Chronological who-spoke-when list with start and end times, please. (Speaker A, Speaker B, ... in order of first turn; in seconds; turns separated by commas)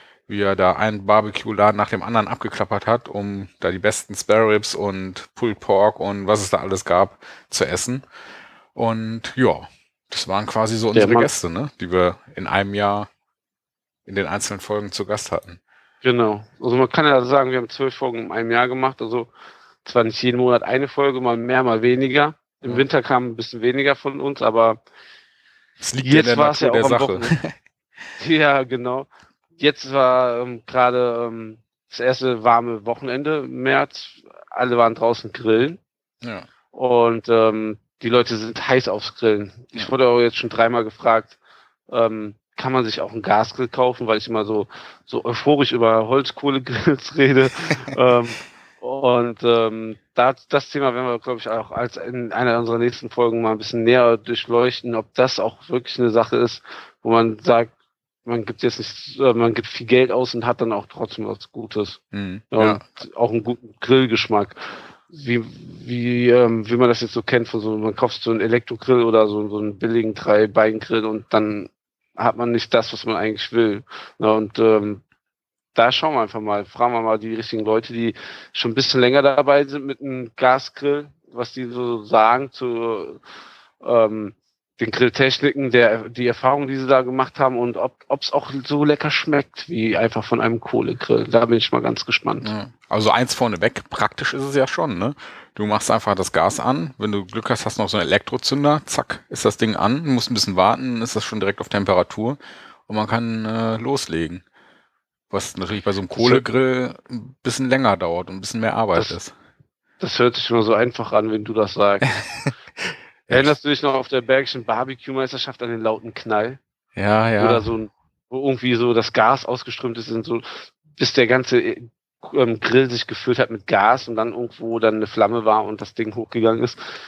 Speaker A: 0.3-8.1, Speaker A: 8.8-13.1, Speaker B: 10.9-11.3, Speaker A: 14.1-15.6, Speaker B: 16.0-19.3, Speaker B: 19.8-24.8, Speaker A: 25.8-27.5, Speaker B: 26.0-27.4, Speaker B: 28.2-35.8, Speaker A: 36.2-36.5, Speaker B: 36.7-41.4, Speaker B: 41.9-57.7, Speaker B: 58.2-62.0, Speaker A: 62.1-62.8, Speaker B: 62.5-75.0, Speaker B: 75.8-83.2, Speaker B: 83.8-92.5, Speaker A: 92.4-104.4, Speaker A: 105.3-109.3, Speaker B: 106.1-106.5, Speaker B: 110.0-112.2, Speaker A: 112.9-113.5, Speaker B: 113.3-116.6, Speaker A: 117.0-117.6, Speaker B: 117.4-126.8